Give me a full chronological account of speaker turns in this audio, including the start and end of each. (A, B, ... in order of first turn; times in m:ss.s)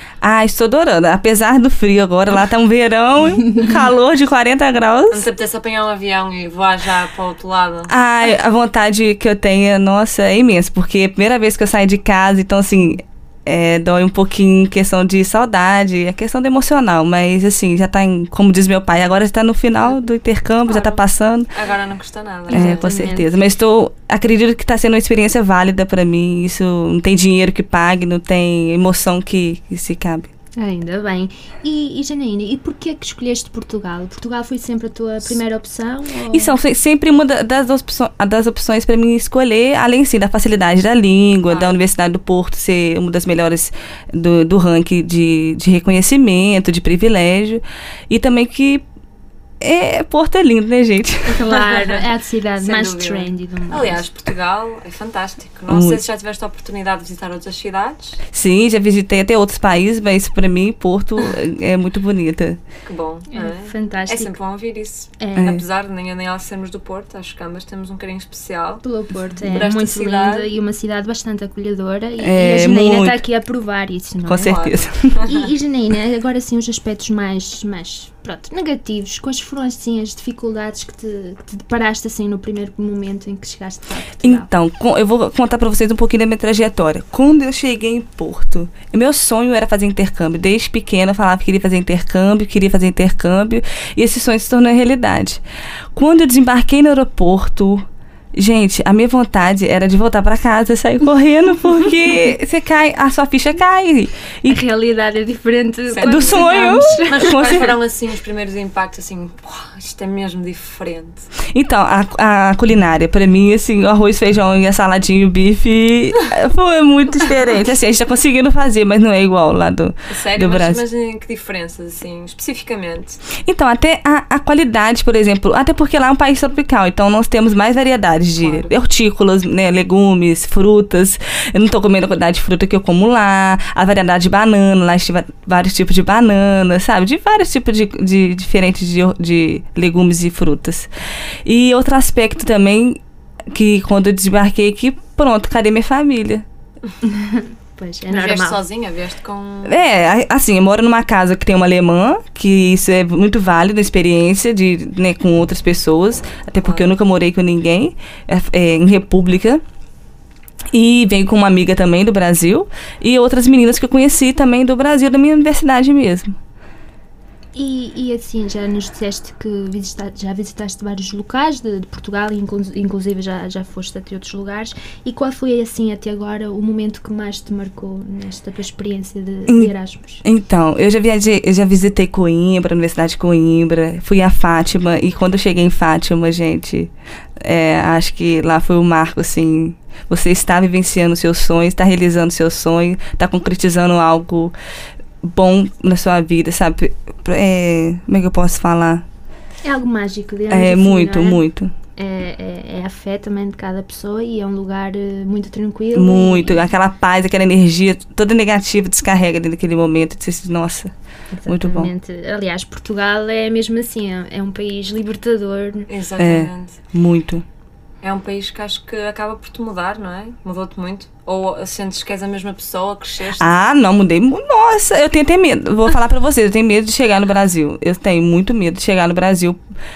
0:00.2-0:05.3 A
0:05.1-0:07.9 B
0:07.9-0:21.5 A
0:20.7-0:22.9 B
0:22.5-0:23.3 C
0:22.5-0:30.3 A
0:30.6-0:36.6 C
0:36.3-0:48.8 A
0:41.5-0:41.7 B
0:49.6-0:51.4 A
0:51.3-0:54.0 C
0:51.6-0:52.0 B
0:52.6-0:58.2 B
0:55.7-0:56.0 A
0:58.3-1:02.6 A
1:02.8-1:08.8 B
1:03.3-1:04.3 C
1:05.2-1:05.6 C
1:08.8-1:14.6 C
1:09.5-1:10.5 B
1:12.2-1:13.2 A
1:14.3-1:15.2 A
1:14.4-1:15.5 B
1:15.2-1:24.5 C
1:24.2-1:35.4 A
1:35.9-1:44.6 A
1:44.5-1:47.7 C
1:45.9-1:51.3 B
1:46.0-1:47.7 A
1:51.5-2:00.8 A
2:00.1-2:03.2 B
2:03.4-2:20.9 A
2:08.4-2:08.7 B
2:21.4-2:26.4 A
2:27.0-2:28.6 C
2:28.1-2:29.8 B
2:29.6-2:39.6 A
2:36.6-2:36.9 B
2:40.7-2:46.4 A
2:47.6-3:00.2 C
3:00.2-3:14.6 A
3:15.2-3:19.0 A
3:19.6-3:21.4 C
3:20.5-3:21.7 A
3:22.0-3:26.6 C
3:25.9-3:30.9 A
3:31.3-3:35.9 C
3:31.5-3:31.9 A
3:35.9-3:36.8 B
3:36.2-3:37.4 A
3:38.0-3:43.5 B
3:43.4-3:49.6 A